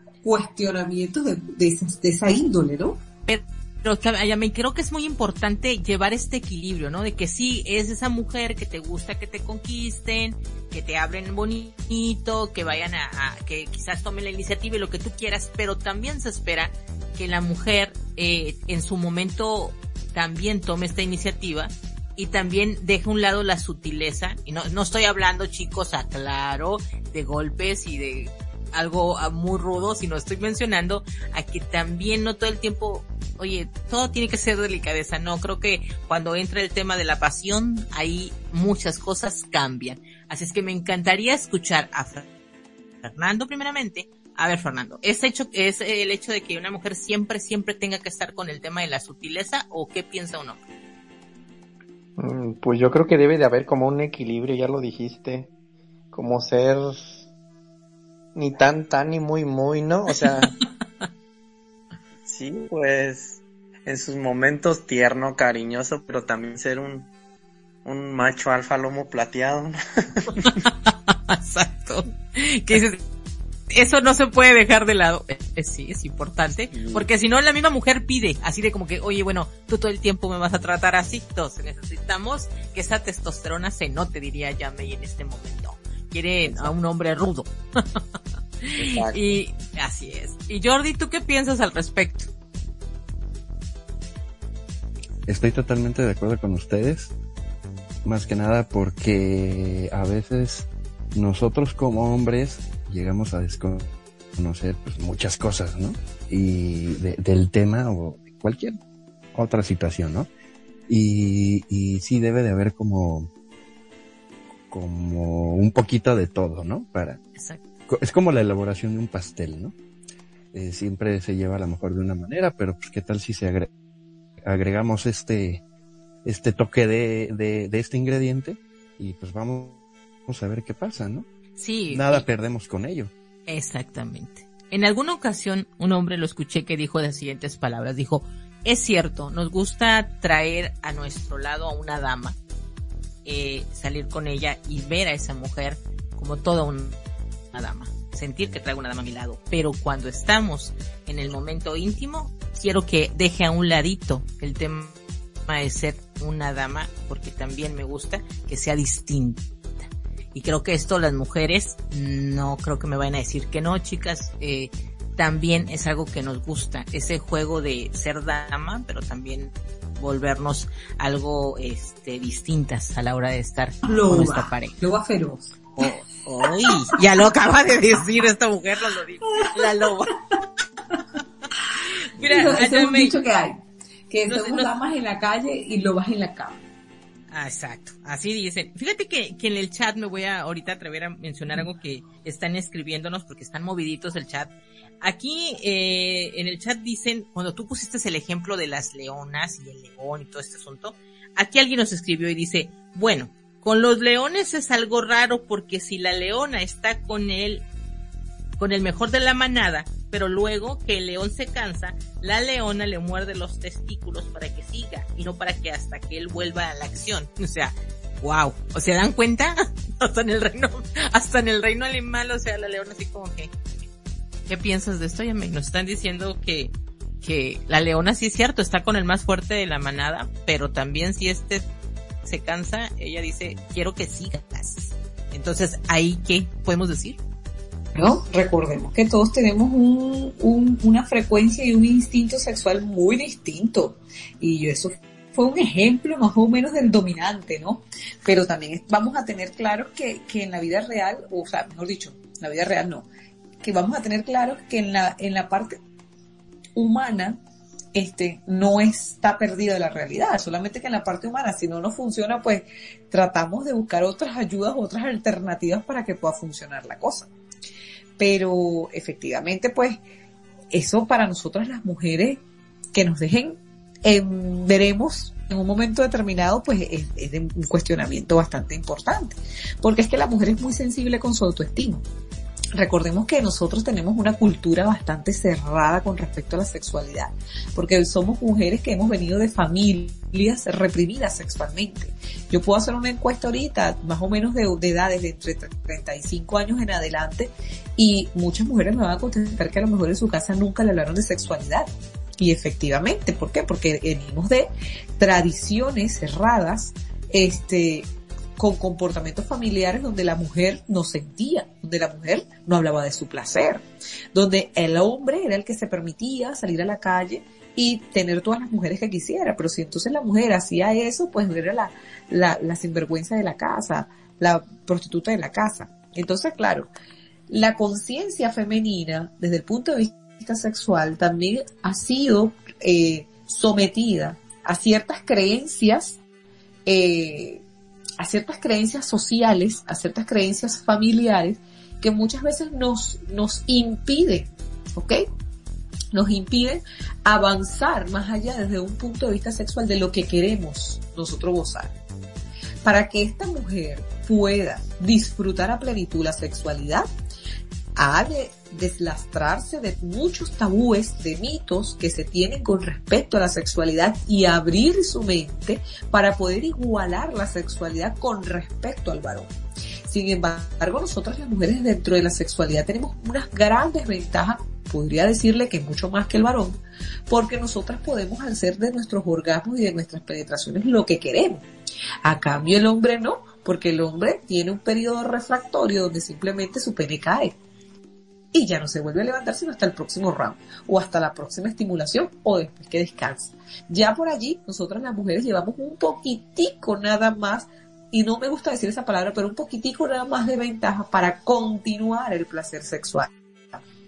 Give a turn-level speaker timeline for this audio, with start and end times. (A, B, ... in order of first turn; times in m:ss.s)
0:00.2-0:03.0 A
0:03.3-0:42.3 B
0:43.0-0:50.6 B
0:52.2-0:55.5 C
0:56.1-0:57.2 C
0:58.4-1:00.6 C
1:02.3-1:07.1 C
1:07.8-1:10.6 C
1:10.7-1:13.0 B
1:13.7-1:28.0 B
1:16.7-1:17.0 C
1:26.4-1:26.7 C
1:28.6-1:32.3 B
1:28.8-1:29.4 C
1:35.3-1:37.1 D
1:38.0-1:48.8 D
1:49.3-1:50.3 D
1:50.9-1:53.3 D
1:54.7-1:57.2 D
1:57.9-1:59.7 D
2:00.5-2:03.7 D
2:04.5-2:05.6 D
2:06.2-2:11.3 D
2:11.6-2:12.2 B
2:11.9-2:13.1 D
2:13.5-2:22.4 B
2:23.2-2:27.0 B
2:27.5-2:54.8 B
2:53.8-2:55.6 A
2:55.8-3:00.1 B
2:59.3-2:59.8 A
3:01.9-3:03.2 B
3:02.2-3:06.6 A
3:04.3-3:04.7 B
3:07.3-3:27.6 B
3:28.6-3:43.5 B
3:44.5-3:51.7 B
3:52.2-3:57.2 B
3:57.9-4:13.1 A
4:13.6-4:15.8 A
4:16.8-4:17.4 A
4:17.9-4:27.3 A
4:28.2-4:30.0 A
4:30.7-4:32.4 A
4:32.9-4:42.0 A
4:42.8-5:26.9 A
5:27.5-5:36.2 A
5:36.9-5:37.6 A
5:38.2-5:45.2 A
5:46.1-5:52.0 A
5:52.8-5:57.1 A
5:58.0-6:09.5 A
6:10.1-6:21.6 A
6:22.2-6:27.6 A
6:28.5-6:43.8 A